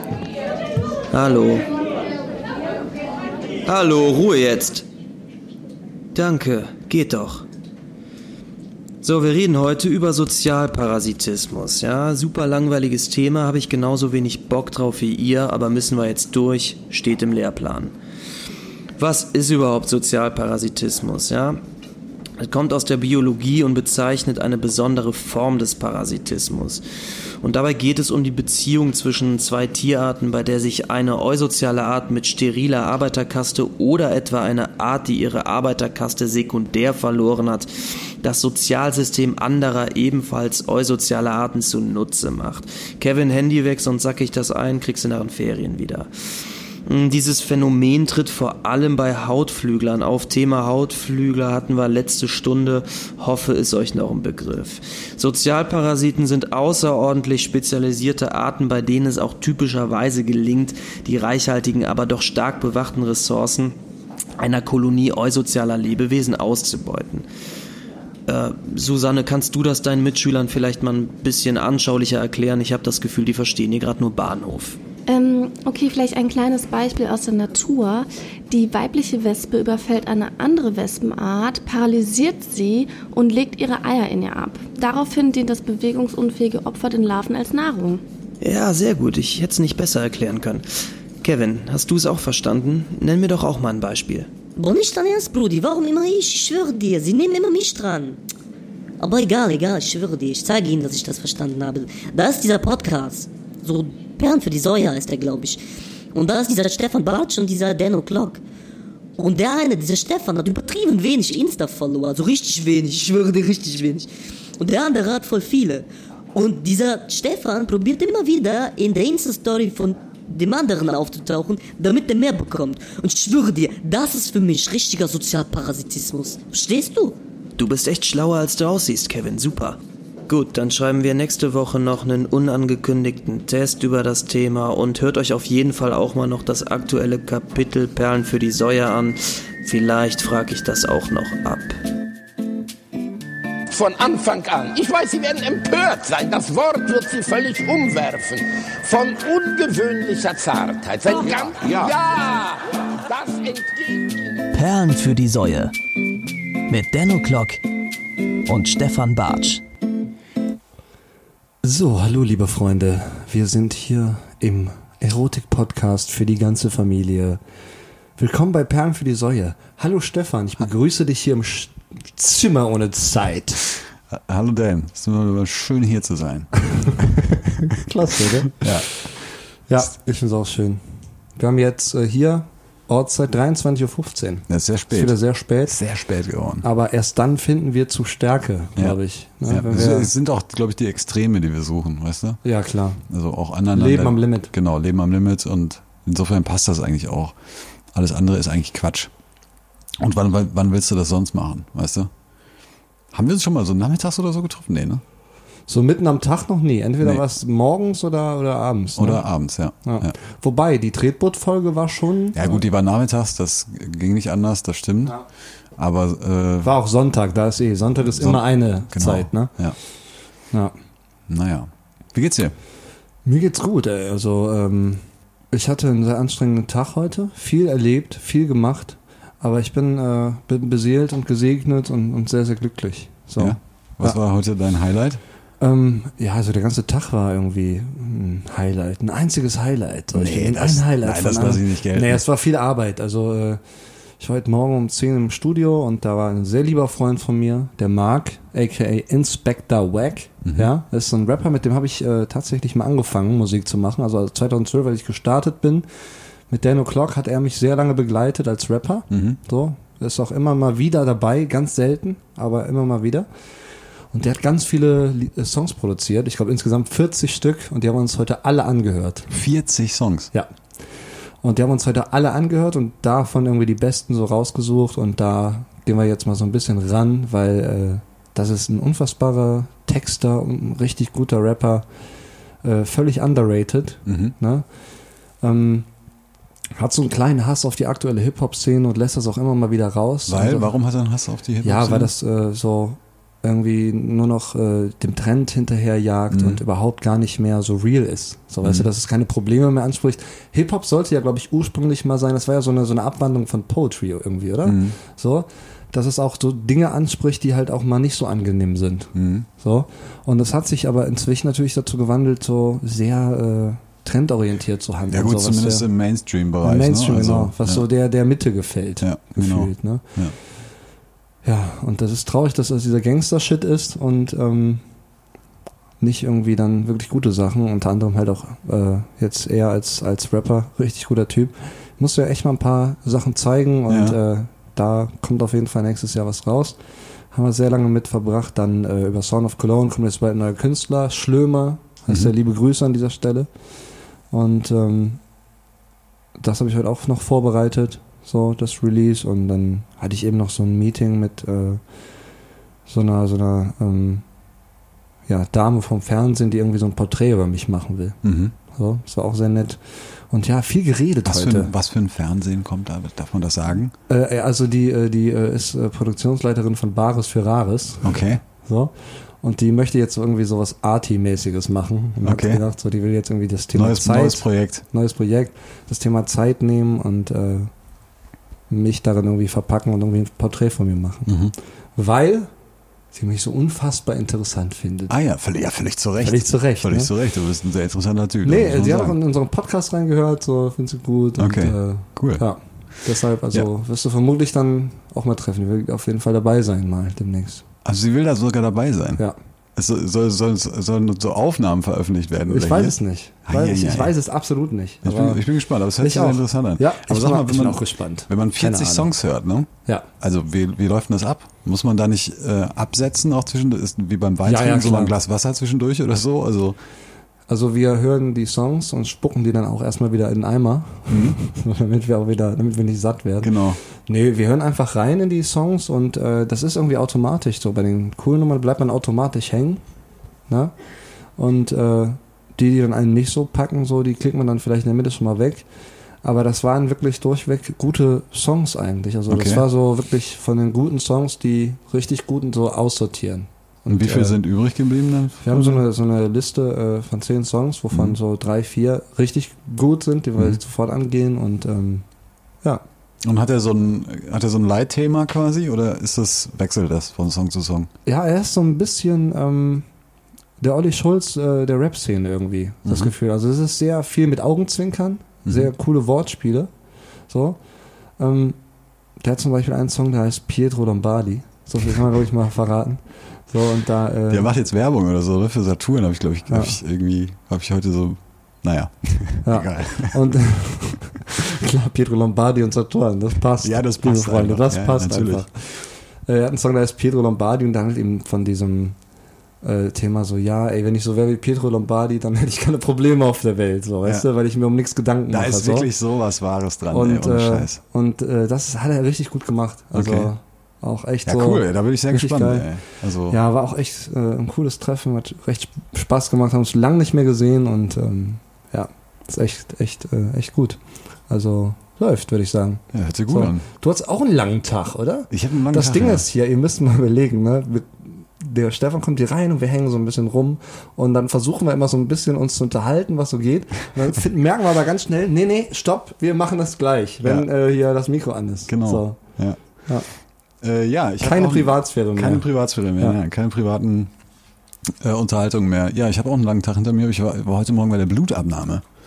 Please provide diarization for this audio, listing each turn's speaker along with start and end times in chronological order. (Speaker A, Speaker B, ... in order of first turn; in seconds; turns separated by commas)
Speaker A: 1.1-1.7, Speaker A: 3.6-4.8, Speaker A: 6.1-7.4, Speaker A: 9.0-17.9, Speaker A: 19.0-21.6, Speaker A: 22.4-26.8, Speaker A: 27.4-37.7, Speaker A: 38.2-46.1, Speaker A: 46.9-63.8, Speaker A: 64.4-67.2, Speaker A: 68.3-74.8, Speaker B: 75.1-88.0, Speaker A: 88.4-90.7, Speaker A: 91.2-94.3, Speaker C: 94.5-98.2, Speaker C: 99.0-105.6, Speaker C: 106.1-108.4, Speaker C: 109.2-127.2, Speaker A: 127.6-129.8, Speaker A: 130.3-141.8, Speaker D: 143.7-154.4, Speaker E: 154.5-155.7, Speaker E: 156.7-157.6, Speaker E: 158.5-159.6, Speaker F: 161.6-167.4, Speaker F: 168.2-173.6, Speaker G: 174.1-177.1, Speaker F: 177.6-178.7, Speaker G: 178.6-178.9, Speaker F: 179.7-180.8, Speaker F: 181.3-185.8, Speaker G: 184.5-186.7, Speaker F: 186.6-190.1, Speaker G: 188.8-192.4, Speaker F: 192.4-193.0, Speaker G: 193.1-197.3, Speaker F: 193.7-194.5, Speaker G: 197.9-199.1, Speaker G: 200.0-202.1, Speaker G: 203.1-205.0, Speaker F: 205.7-209.2, Speaker G: 208.9-210.1, Speaker F: 209.8-212.5, Speaker G: 212.3-215.2, Speaker G: 215.8-216.7, Speaker F: 216.6-219.5, Speaker G: 218.2-219.8, Speaker G: 221.3-222.5, Speaker F: 223.2-234.2, Speaker G: 233.4-235.2, Speaker F: 235.6-243.6, Speaker G: 240.1-242.2, Speaker F: 244.2-255.8, Speaker G: 250.4-250.7, Speaker F: 256.5-263.3, Speaker G: 259.1-259.4, Speaker F: 264.1-269.3, Speaker G: 269.3-270.3, Speaker F: 271.4-281.8, Speaker F: 282.6-284.6, Speaker G: 284.1-284.3, Speaker F: 285.4-285.9, Speaker F: 286.8-290.7, Speaker G: 290.3-292.1, Speaker F: 291.6-315.9, Speaker G: 296.3-296.6, Speaker G: 304.6-304.9, Speaker G: 309.1-309.5, Speaker G: 315.1-317.9, Speaker F: 316.6-320.0, Speaker G: 319.0-320.3, Speaker F: 321.4-324.8, Speaker F: 326.0-336.8, Speaker G: 333.9-334.2, Speaker F: 337.3-343.5, Speaker F: 344.3-345.2, Speaker F: 346.4-351.8, Speaker F: 352.9-354.2, Speaker F: 355.3-358.2, Speaker G: 358.2-358.5, Speaker F: 358.7-361.7, Speaker G: 361.2-363.9, Speaker F: 364.1-377.7, Speaker G: 368.0-368.4, Speaker G: 372.2-372.6, Speaker G: 373.7-374.8, Speaker F: 378.7-381.3, Speaker G: 381.3-381.5, Speaker F: 381.9-382.5, Speaker F: 383.1-385.1, Speaker G: 385.1-389.2, Speaker F: 386.2-387.1, Speaker F: 388.4-397.6, Speaker G: 391.4-392.4, Speaker G: 397.8-399.2, Speaker G: 399.8-404.1, Speaker F: 402.5-405.4, Speaker G: 405.0-416.8, Speaker F: 406.0-409.1, Speaker F: 414.4-415.1, Speaker F: 417.5-429.8, Speaker G: 421.1-421.4, Speaker G: 423.4-423.8, Speaker F: 430.5-430.7, Speaker F: 431.4-435.6, Speaker F: 436.2-444.4, Speaker G: 439.3-439.6, Speaker G: 443.9-445.8, Speaker F: 445.4-452.0, Speaker G: 453.2-457.9, Speaker F: 458.1-459.9, Speaker F: 460.6-466.7, Speaker G: 462.9-463.1, Speaker F: 467.3-467.6, Speaker F: 468.2-468.6, Speaker F: 469.2-474.5, Speaker G: 474.3-480.3, Speaker F: 476.5-476.8, Speaker F: 479.4-488.9, Speaker G: 483.6-485.5, Speaker F: 489.6-495.9, Speaker G: 495.3-497.8, Speaker F: 496.9-502.7, Speaker G: 499.9-500.3, Speaker G: 501.2-503.4, Speaker F: 503.3-529.2, Speaker G: 512.9-513.6, Speaker G: 515.3-516.2, Speaker G: 527.2-527.5, Speaker G: 528.7-529.6, Speaker G: 530.6-534.1, Speaker F: 531.2-532.5, Speaker G: 534.9-538.9